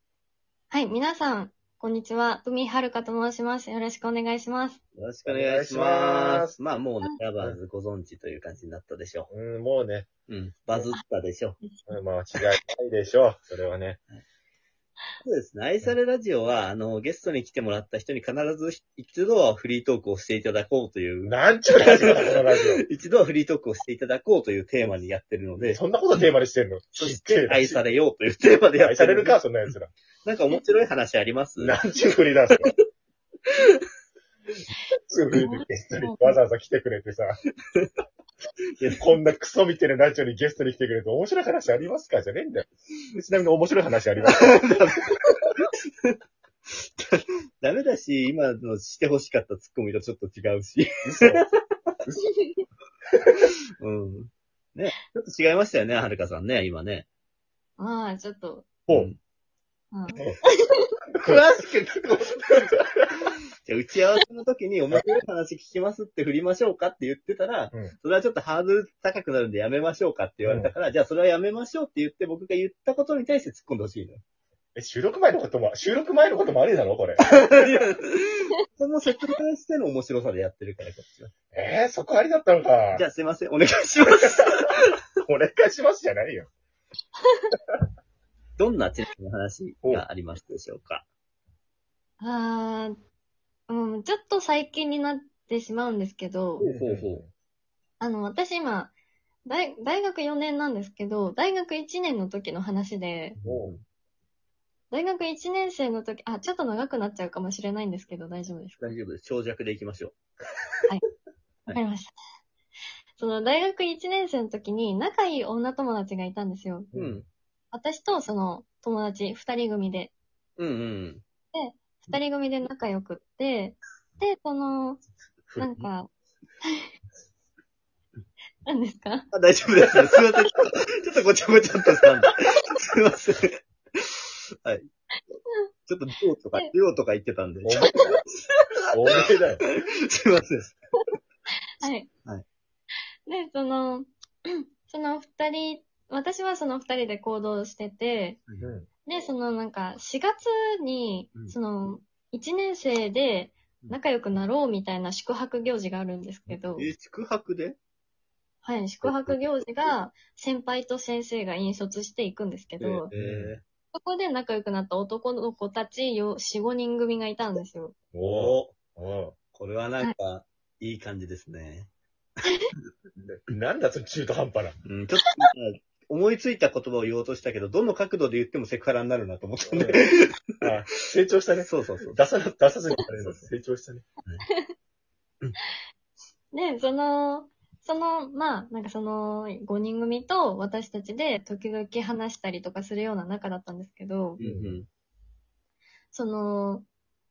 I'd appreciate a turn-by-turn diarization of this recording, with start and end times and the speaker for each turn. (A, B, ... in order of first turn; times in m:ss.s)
0:00.7-0:04.8 A
0:05.0-0:09.3 B
0:05.3-0:06.6 C
0:09.3-0:10.1 C
0:10.3-0:11.6 B
0:11.6-0:11.9 A
0:11.9-0:14.0 C
0:15.2-0:25.8 B
0:21.2-0:22.8 C
0:25.6-0:27.8 C
0:27.0-0:29.7 B
0:28.8-0:29.9 C
0:30.2-0:31.8 B
0:31.6-0:32.7 C
0:35.1-0:37.4 C
0:35.4-0:36.4 A
0:38.8-0:39.0 B
0:39.0-0:45.1 C
0:44.3-0:46.2 B
0:47.0-0:51.4 B
0:51.0-0:51.4 C
0:52.4-0:52.6 A
0:53.8-0:57.1 B
0:57.8-0:58.7 A
0:58.9-0:59.1 C
0:58.9-0:59.2 B
0:59.9-1:00.8 A
1:01.1-1:01.6 C
1:01.2-1:02.7 B
1:03.6-1:14.2 B
1:10.4-1:10.7 C
1:14.8-1:17.8 C
1:17.4-1:21.3 B
1:21.5-1:23.0 C
1:22.9-1:24.8 B
1:24.1-1:24.5 C
1:25.2-1:26.5 C
1:27.2-1:27.5 A
1:28.6-1:31.0 B
1:32.2-1:33.0 A
1:33.7-1:36.6 A
1:36.6-1:37.2 B
1:36.6-1:37.3 C
1:38.0-1:38.9 A
1:39.5-1:43.4 A
1:43.4-1:43.7 C
1:43.4-1:43.8 B
1:44.9-1:48.8 A
1:48.8-1:50.2 B
1:51.7-1:52.1 A
1:53.2-1:56.9 A
1:56.9-1:57.2 C
1:56.9-1:57.2 B
1:57.7-2:00.1 A
2:00.6-2:01.2 B
2:01.5-2:05.0 A
2:05.6-2:05.9 B
2:05.6-2:06.1 A
2:08.7-2:09.3 A
2:09.3-2:14.9 B
2:15.9-2:18.1 B
2:17.6-2:18.2 C
2:17.9-2:18.2 A
2:18.9-2:19.6 C
2:19.7-2:20.8 B
2:21.8-2:22.1 A
2:23.3-2:28.4 A
2:28.6-2:28.9 C
2:29.1-2:36.9 A
2:36.5-2:37.8 B
2:38.6-2:43.1 A
2:39.0-2:39.6 B
2:42.8-2:43.6 B
2:43.1-2:43.6 C
2:43.9-2:48.0 A
2:48.1-2:49.4 C
2:48.2-2:48.7 B
2:49.5-2:51.9 B
2:53.2-2:54.8 C
2:54.9-3:00.3 B
2:59.7-3:00.0 C
3:00.6-3:04.0 C
3:01.6-3:02.2 B
3:03.2-3:03.5 B
3:04.4-3:04.7 A
3:06.5-3:14.4 A
3:14.4-3:14.9 B
3:14.4-3:14.8 C
3:16.1-3:16.9 A